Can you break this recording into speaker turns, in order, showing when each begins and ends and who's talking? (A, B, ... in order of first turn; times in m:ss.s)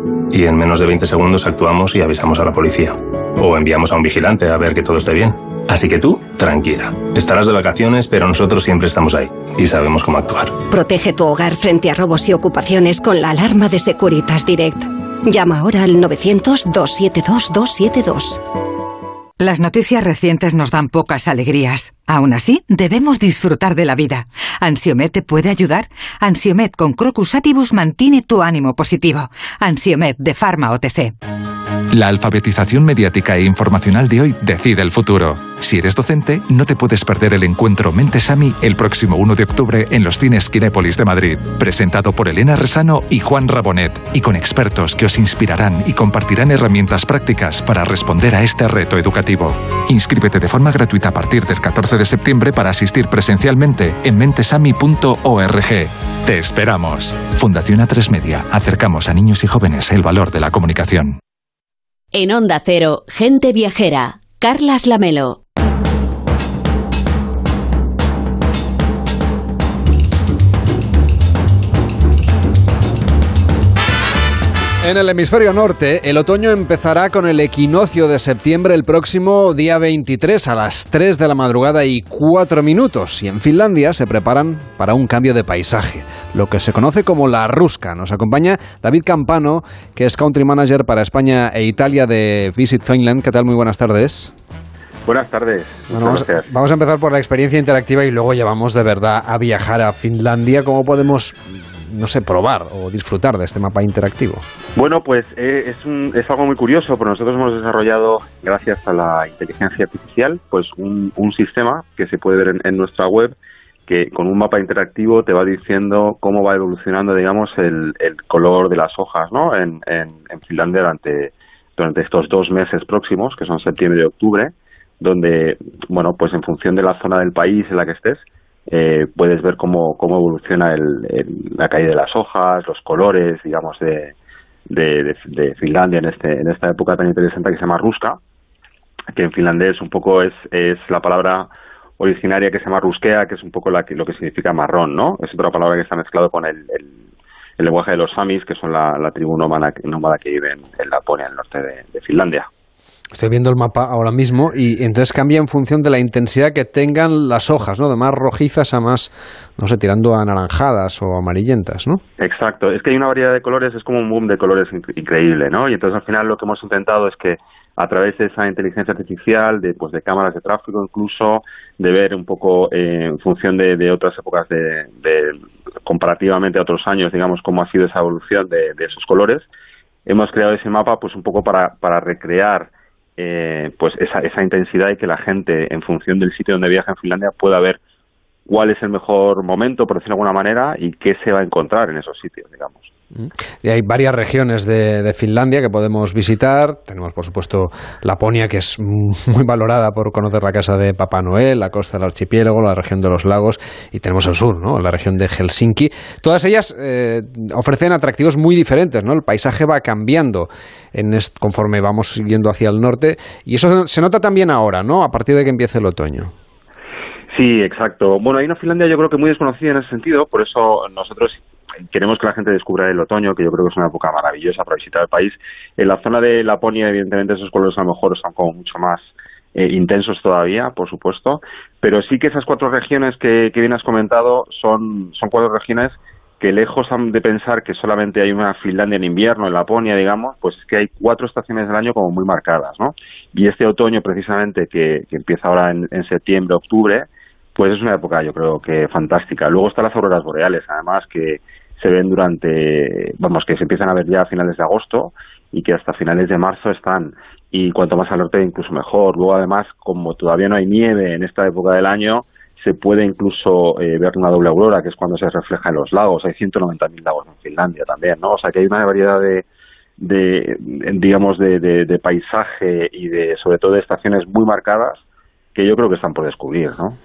0:00.3-0:10.6 A
0:10.7-0:18.4 B
0:19.4-0:31.2 C
0:31.9-1:01.2 D
1:02.1-1:05.4 E
1:14.8-1:34.3 F
1:35.1-1:36.4 G
1:35.9-1:44.4 F
1:44.8-1:53.4 G
1:53.9-2:14.1 G
2:14.7-2:18.2 G
2:19.1-2:21.5 G
2:22.0-2:27.0 G
2:27.6-2:32.5 G
2:33.1-2:42.0 F
2:42.2-2:59.5 G
3:00.1-3:07.8 G
3:08.5-3:12.9 G
3:13.2-3:36.3 F
3:37.3-4:29.4 G
4:30.0-4:35.0 G
4:35.6-4:37.0 G